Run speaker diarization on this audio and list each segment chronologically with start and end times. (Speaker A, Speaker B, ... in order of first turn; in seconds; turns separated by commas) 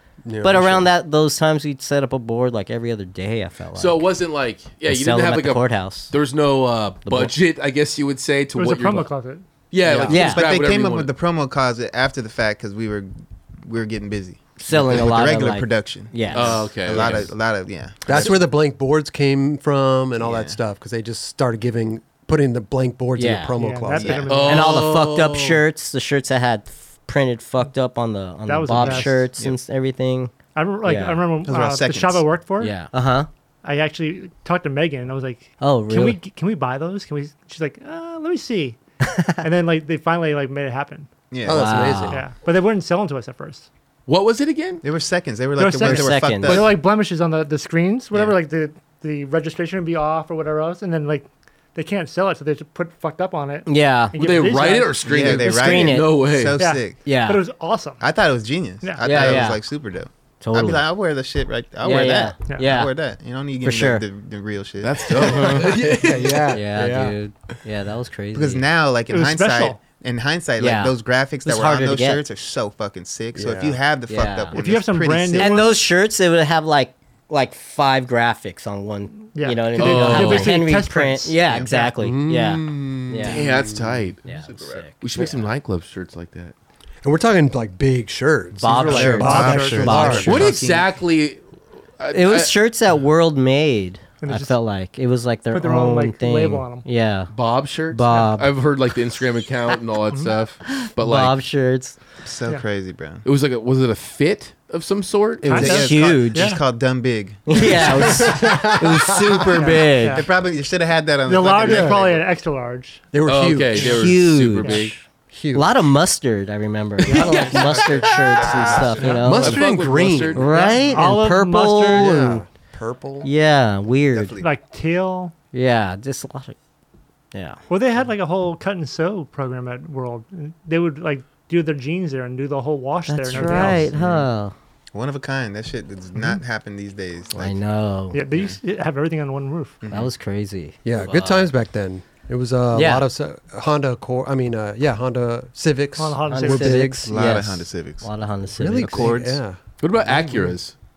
Speaker A: 0.2-0.9, Speaker B: 0.4-4.0, Speaker C: 3.8-9.1, Speaker B: 4.8-6.1, Speaker B: 7.0-7.3, Speaker D: 8.5-9.4, Speaker C: 9.7-11.1, Speaker A: 9.8-10.1, Speaker E: 10.0-18.3, Speaker B: 10.1-10.5, Speaker B: 14.6-16.7, Speaker C: 16.3-17.3, Speaker A: 18.1-24.3, Speaker E: 20.2-20.6, Speaker B: 23.2-23.5, Speaker D: 23.6-24.9, Speaker E: 23.9-24.3, Speaker C: 24.3-25.6, Speaker B: 24.4-31.2, Speaker D: 28.5-29.3, Speaker E: 28.8-29.6, Speaker D: 30.5-32.7, Speaker E: 31.4-32.2, Speaker B: 32.6-33.3, Speaker D: 33.6-38.8, Speaker B: 35.6-36.2, Speaker B: 39.0-39.4, Speaker D: 39.4-41.1, Speaker E: 41.3-42.0, Speaker A: 41.4-42.2, Speaker B: 41.5-42.2, Speaker D: 42.1-43.7, Speaker C: 44.1-44.8, Speaker E: 44.8-46.8, Speaker D: 45.6-55.0, Speaker B: 45.8-46.6, Speaker B: 53.6-54.2, Speaker C: 54.1-56.6, Speaker E: 55.0-57.1, Speaker B: 55.2-56.1, Speaker D: 56.5-58.0, Speaker B: 57.0-57.4, Speaker E: 58.0-65.6, Speaker D: 58.8-59.5, Speaker B: 59.0-59.6, Speaker B: 60.4-60.9, Speaker B: 61.8-62.9, Speaker B: 63.6-64.0, Speaker C: 64.8-66.5, Speaker A: 65.1-67.1, Speaker B: 65.2-65.8, Speaker B: 66.5-68.6, Speaker E: 68.3-75.6, Speaker D: 69.1-69.8, Speaker B: 70.6-70.9, Speaker B: 71.4-72.2, Speaker A: 73.3-73.8, Speaker B: 74.1-74.5, Speaker D: 74.5-75.7, Speaker B: 75.3-83.4, Speaker D: 79.3-81.9, Speaker C: 79.8-80.6, Speaker A: 82.0-84.1, Speaker C: 83.2-84.2, Speaker B: 84.2-85.0, Speaker E: 84.2-85.4, Speaker C: 84.9-86.5, Speaker A: 87.0-90.4, Speaker B: 88.6-90.6, Speaker E: 88.7-90.8, Speaker D: 89.1-90.3, Speaker C: 90.3-91.4, Speaker C: 92.0-92.5, Speaker B: 92.1-97.3, Speaker D: 94.2-94.5, Speaker D: 95.5-96.9, Speaker C: 97.3-101.4, Speaker B: 97.9-98.5, Speaker B: 100.7-102.0, Speaker E: 102.2-103.2, Speaker C: 103.2-105.6, Speaker D: 105.4-106.6, Speaker B: 105.4-106.6, Speaker E: 105.5-108.2, Speaker B: 107.5-110.2, Speaker A: 107.5-109.7, Speaker D: 109.5-110.3, Speaker E: 110.0-112.2, Speaker D: 111.2-113.0, Speaker A: 111.6-112.0, Speaker A: 113.1-114.0, Speaker C: 113.2-114.9, Speaker B: 113.8-119.6, Speaker D: 114.6-114.9, Speaker A: 115.3-115.9, Speaker C: 117.1-117.5, Speaker E: 117.1-119.1, Speaker A: 118.6-121.1, Speaker C: 119.2-120.6, Speaker B: 120.3-122.4, Speaker D: 120.5-122.2, Speaker A: 121.9-123.3, Speaker B: 123.2-124.4, Speaker E: 124.1-124.5, Speaker D: 124.4-125.3, Speaker B: 125.5-126.5, Speaker B: 127.3-127.6, Speaker D: 127.7-133.9, Speaker B: 133.1-134.5, Speaker A: 133.3-134.2, Speaker E: 134.9-137.6, Speaker B: 137.3-138.2, Speaker D: 138.1-139.8, Speaker E: 138.2-138.6, Speaker E: 139.8-140.1, Speaker B: 139.8-141.5, Speaker A: 140.8-147.1, Speaker B: 142.7-143.1, Speaker D: 146.0-147.0, Speaker B: 146.2-149.2, Speaker E: 147.0-148.1, Speaker A: 148.5-150.5, Speaker C: 148.9-150.7